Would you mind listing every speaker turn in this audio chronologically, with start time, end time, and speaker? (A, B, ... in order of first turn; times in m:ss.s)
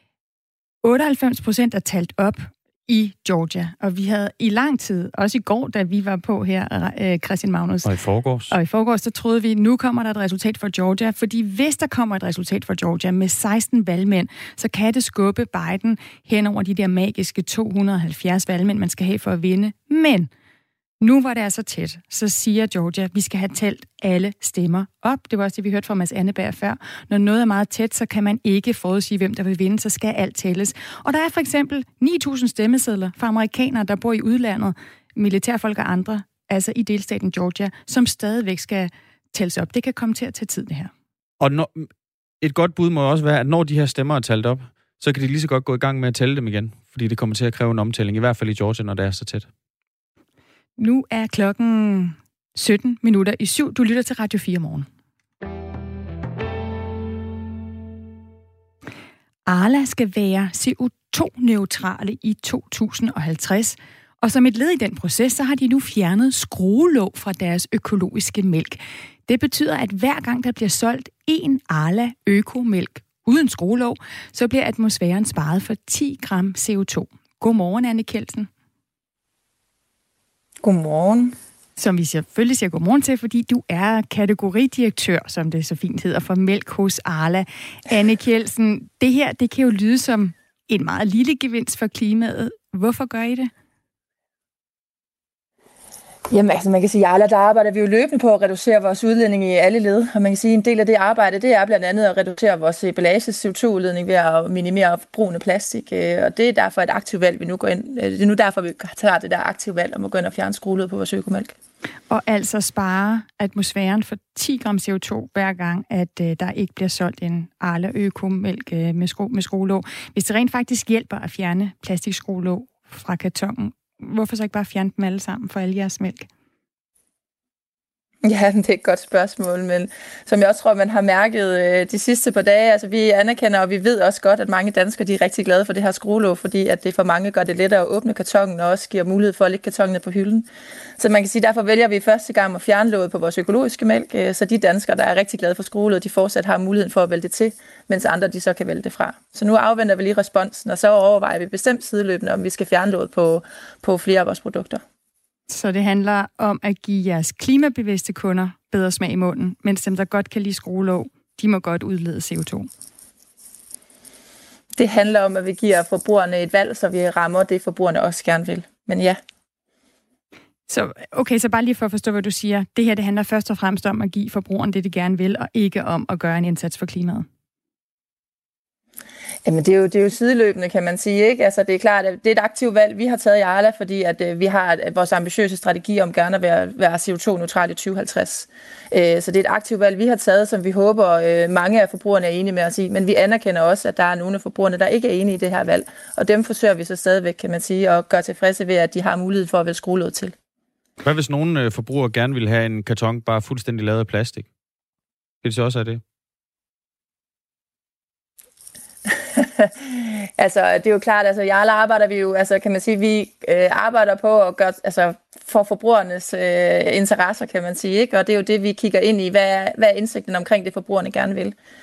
0:00.8-0:07.9 A
0:07.8-0:08.6 B
0:08.5-0:20.3 A
0:21.0-0:40.9 A
0:41.4-0:41.9 B
0:42.4-0:49.5 B
0:50.8-0:54.9 A
0:59.5-1:18.5 A
1:20.6-1:21.4 C
1:21.8-1:33.5 A
1:36.3-1:51.6 C
1:52.1-2:06.3 A
2:08.2-2:20.5 C
2:21.0-2:34.8 C
2:35.5-2:42.7 A
2:44.8-2:49.2 C
2:50.7-2:57.3 A
2:59.4-3:20.4 C
3:21.0-3:24.5 B
3:25.4-3:26.0 B
3:29.4-3:41.6 C